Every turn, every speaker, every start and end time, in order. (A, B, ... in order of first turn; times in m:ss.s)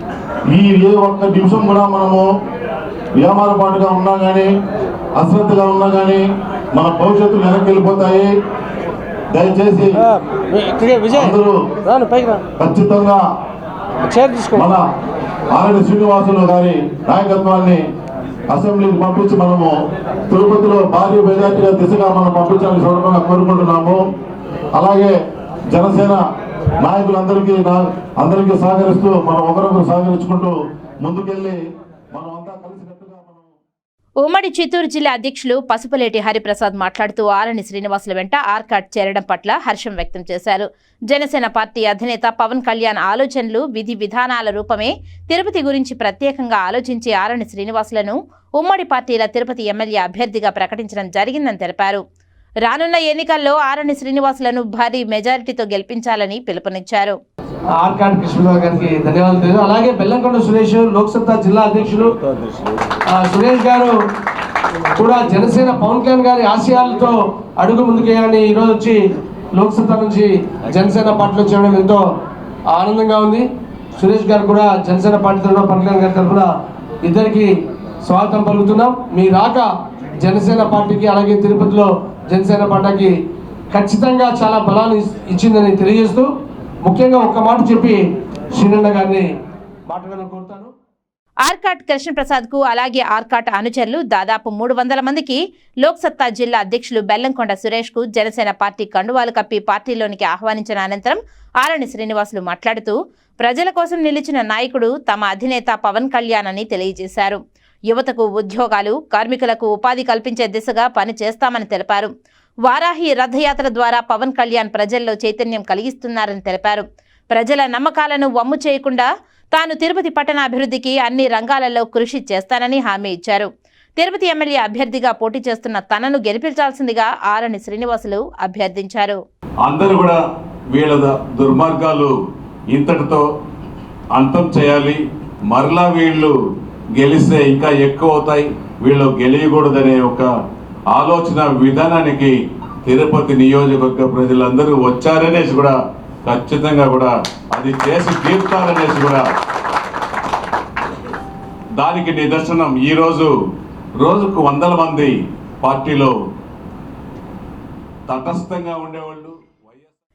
0:00.5-0:02.2 A
0:03.2-0:04.5 A
0:05.2-0:08.3 A
0:09.3-0:10.0 A
0:10.5-0:11.3 B
0:11.1-0:11.6 A
0:11.9-0:12.4 B
0:12.6-0:13.2 A
0:14.1-0:14.7 B
0:14.5-0:14.8 A
0:15.5-0:17.8 A
0:18.5-0:19.7 A
0:20.3-0:24.0 A
0:24.8-0:25.2 A
0:25.7-0:26.2 A
0:26.8-0:31.6 A
0:32.1-0:33.5 A
0:34.2-0:52.0 C
0:52.6-0:57.2 C
0:57.8-1:02.2 B
1:03.1-1:04.0 B
1:05.0-1:09.0 B
1:09.5-1:12.0 B
1:12.7-1:13.5 B
1:14.0-1:16.5 B
1:17.0-1:17.5 B
1:18.0-1:19.7 B
1:20.2-1:23.1 B
1:23.7-1:26.3 B
1:26.8-1:28.0 B
1:28.5-1:29.3 B
1:29.9-1:30.7 B
1:31.4-1:47.4 C
1:47.9-1:52.1 C
1:52.6-2:09.2 C
2:09.6-2:10.2 D
2:10.7-2:12.1 D
2:12.7-2:13.2 D
2:14.1-2:16.4 D
2:17.0-2:20.3 D
2:20.9-2:29.3 D
2:31.8-2:33.3 D
2:34.0-2:36.1 D
2:38.1-2:39.9 D